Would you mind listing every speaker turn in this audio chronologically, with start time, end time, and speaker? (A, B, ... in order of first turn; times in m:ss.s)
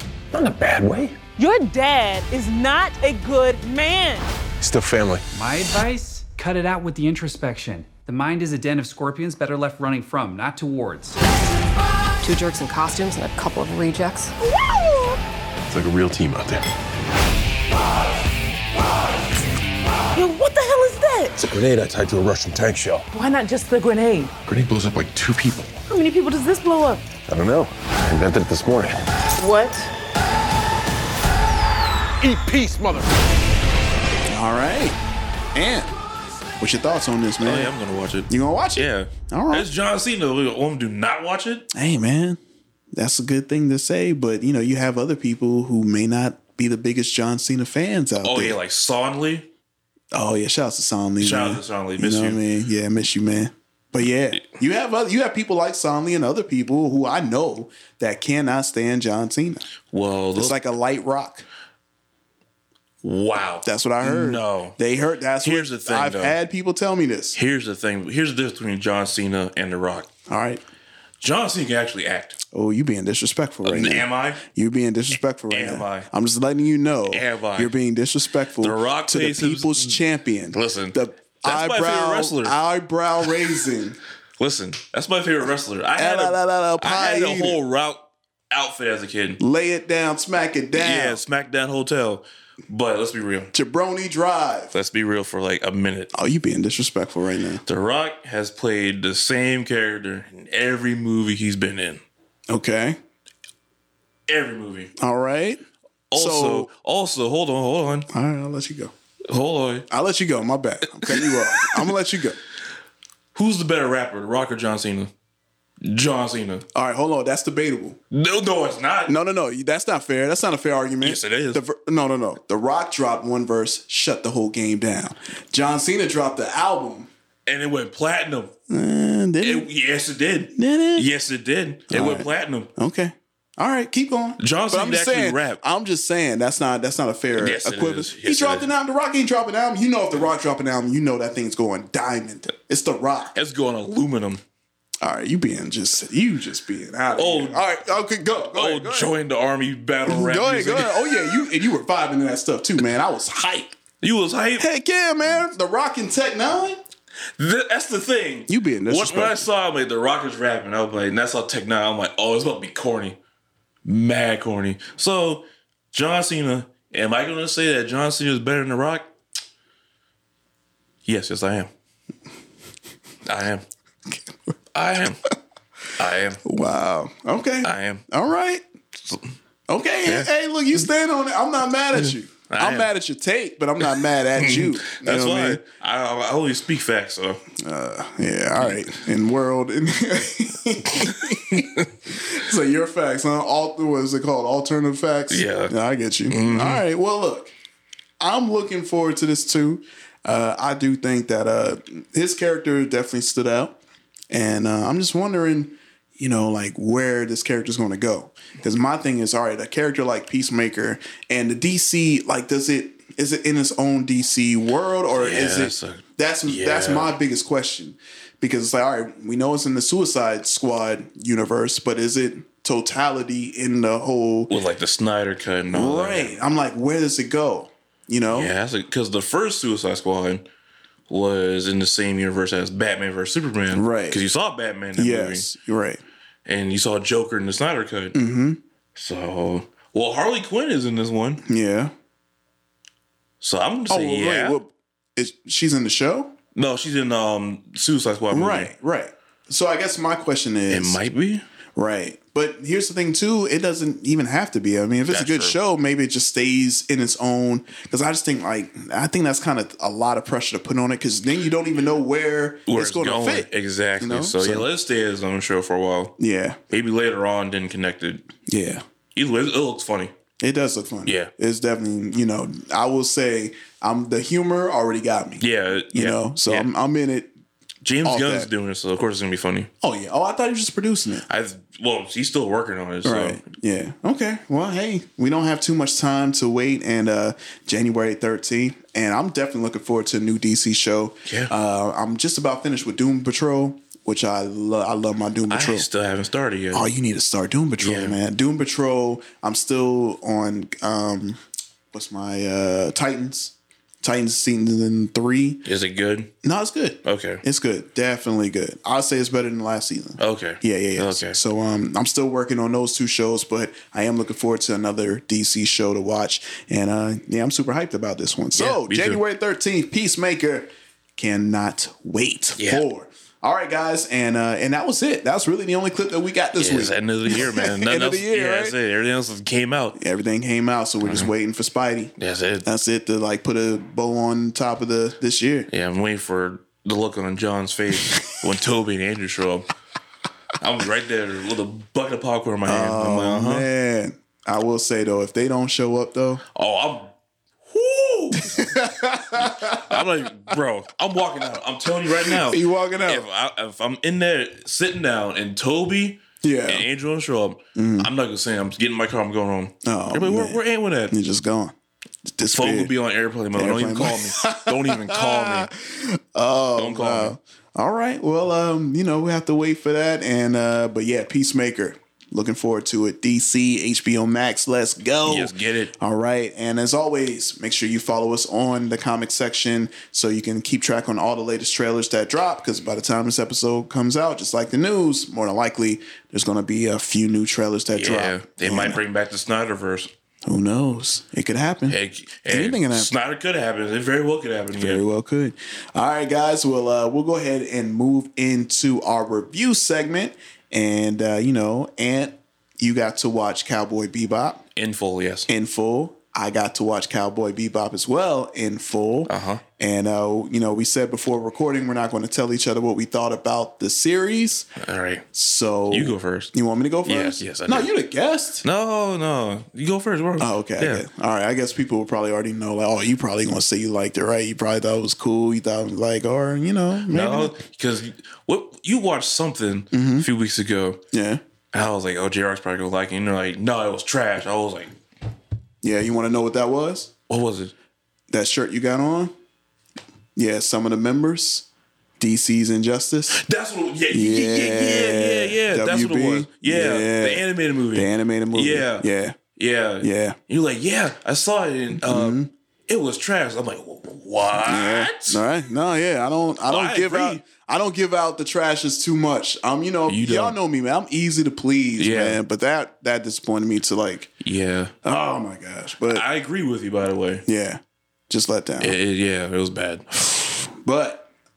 0:00.3-0:01.2 A
0:01.4-0:04.3 B
0:04.6-0:05.2 A
0:05.3-0:11.2 C
0:12.2-0:14.3 D
0:14.4-0:15.2 B
0:15.7-0:16.7 A
0:20.1-0:21.4 B
0:21.4-0:23.1 A
0:23.1-0:24.3 B
0:24.4-0:25.8 A
0:25.9-0:27.0 B
0:27.3-0:29.1 A
0:29.3-0:29.9 B
0:32.2-0:33.1 A
0:34.3-0:35.0 E
0:35.5-0:35.9 E
0:36.6-0:37.7 E
0:37.4-0:41.7 F
0:38.3-0:39.7 E
0:41.7-0:42.4 E
0:42.9-0:48.6 E
0:48.2-0:49.5 F
0:50.1-0:59.6 E
0:51.2-0:52.4 F
0:59.9-1:00.6 F
1:00.4-1:01.5 E
1:03.0-1:04.8 F
1:03.6-1:07.4 E
1:05.4-1:06.4 F
1:07.4-1:10.1 F
1:10.3-1:10.6 E
1:11.2-1:12.4 F
1:12.5-1:24.0 E
1:13.6-1:14.4 F
1:15.5-1:16.1 F
1:17.1-1:17.7 F
1:18.6-1:20.0 F
1:20.5-1:22.6 F
1:24.4-1:29.4 F
1:26.0-1:27.6 E
1:29.4-1:31.2 E
1:30.8-1:33.5 F
1:33.5-1:34.7 E
1:34.7-1:36.1 F
1:36.1-1:37.6 E
1:37.7-1:42.0 F
1:42.5-1:43.0 E
1:44.3-1:44.9 F
1:45.0-1:45.6 E
1:46.1-1:48.1 F
1:46.2-1:46.7 E
1:48.1-1:48.9 E
1:49.3-1:49.9 F
1:49.9-1:52.4 E
1:51.1-1:51.8 F
1:53.3-1:55.1 F
1:55.8-1:56.6 F
1:56.7-1:58.0 E
1:58.1-1:59.1 F
1:59.1-2:07.1 E
2:01.0-2:01.6 F
2:07.5-2:08.5 F
2:08.7-2:09.7 E
2:09.4-2:12.7 F
2:10.6-2:11.1 E
2:11.9-2:23.4 E
2:14.4-2:15.6 F
2:17.4-2:18.7 F
2:23.4-2:24.4 F
2:25.0-2:29.1 E
2:27.2-2:27.6 F
2:28.5-2:31.1 F
2:30.1-2:33.8 E
2:34.0-2:34.7 F
2:34.6-2:36.8 E
2:37.4-2:43.2 F
2:38.5-2:39.5 E
2:43.8-2:49.1 F
2:51.1-2:51.7 F
2:53.3-2:53.6 F
2:54.8-2:55.2 F
2:56.0-2:56.4 F
2:56.4-2:58.6 E
2:57.6-2:58.0 F
2:59.7-3:05.6 E
3:02.0-3:02.9 F
3:03.8-3:07.4 F
3:07.6-3:17.5 E
3:11.0-3:11.9 F
3:15.3-3:15.7 F
3:16.3-3:16.8 F
3:18.2-3:23.8 E
3:24.3-3:44.5 E
3:35.2-3:37.1 F
3:44.5-3:46.4 F
3:45.7-3:48.5 E
3:48.3-3:50.4 F
3:51.1-3:55.5 F
3:53.7-3:54.2 E
3:55.0-3:56.0 E
3:56.5-3:58.2 F
3:58.1-3:58.6 E
3:59.0-4:01.4 F
4:01.4-4:01.9 E
4:03.4-4:04.6 F
4:03.9-4:06.3 E
4:06.6-4:08.7 F
4:08.3-4:11.0 E
4:10.7-4:11.4 F
4:11.8-4:24.7 E
4:15.1-4:15.6 F
4:22.7-4:26.2 F
4:26.2-4:26.6 E
4:26.7-4:28.2 F
4:28.5-4:28.8 E
4:29.2-4:30.1 F
4:30.4-4:37.3 E
4:31.1-4:31.3 F
4:35.4-4:36.7 F
4:37.8-4:39.7 F
4:38.0-4:38.5 E
4:39.8-4:41.3 E
4:41.3-4:43.4 F
4:43.0-4:55.9 E
4:51.3-4:51.5 F
4:55.5-4:56.9 F
4:56.7-5:01.4 E
4:57.8-4:58.2 F
5:01.9-5:05.6 E
5:05.7-5:06.3 F
5:06.4-5:28.8 E
5:07.0-5:07.4 F
5:10.2-5:11.4 F
5:18.6-5:19.2 F
5:22.6-5:22.8 F
5:26.6-5:30.0 F
5:30.0-5:32.1 E
5:31.0-5:31.3 F
5:32.2-5:32.7 F
5:32.6-5:35.7 E
5:35.7-5:39.7 F
5:40.6-5:43.7 F
5:42.6-5:46.4 E
5:46.6-5:47.1 F
5:47.7-5:48.7 F
5:48.4-5:50.0 E
5:49.7-6:01.1 F
5:52.2-5:53.3 E
5:56.4-5:56.9 E
5:57.8-5:58.1 E
5:59.8-6:01.7 E
6:02.3-6:02.9 E
6:02.5-6:05.7 F
6:03.5-6:29.0 E
6:06.8-6:07.4 F
6:15.2-6:15.9 F
6:28.0-6:30.1 F
6:30.5-6:33.1 E
6:31.9-6:35.0 F
6:34.7-6:44.6 E
6:44.8-6:45.5 F
6:45.5-6:54.7 E
6:49.3-6:49.6 F
6:54.8-6:55.2 F
6:55.3-6:58.6 E
6:55.9-6:56.5 F
6:57.1-6:57.9 F
6:58.6-7:01.0 F
7:00.4-7:07.5 E
7:07.1-7:11.0 F
7:09.9-7:10.3 E
7:11.1-7:11.4 E
7:11.7-7:14.9 F
7:15.8-7:17.1 E
7:17.3-7:17.7 F
7:18.3-7:19.3 E
7:20.4-7:21.7 E
7:22.2-7:23.4 E
7:23.3-7:35.4 F
7:24.1-7:29.4 E
7:30.0-7:30.4 E
7:31.9-7:32.5 E
7:34.6-7:44.3 E
7:36.7-7:37.4 F
7:40.1-7:40.6 F
7:42.0-7:42.4 F
7:44.4-7:44.9 F
7:45.0-7:46.2 E
7:46.1-7:47.4 F
7:47.5-7:49.0 E
7:48.8-7:50.4 F
7:50.6-7:51.3 E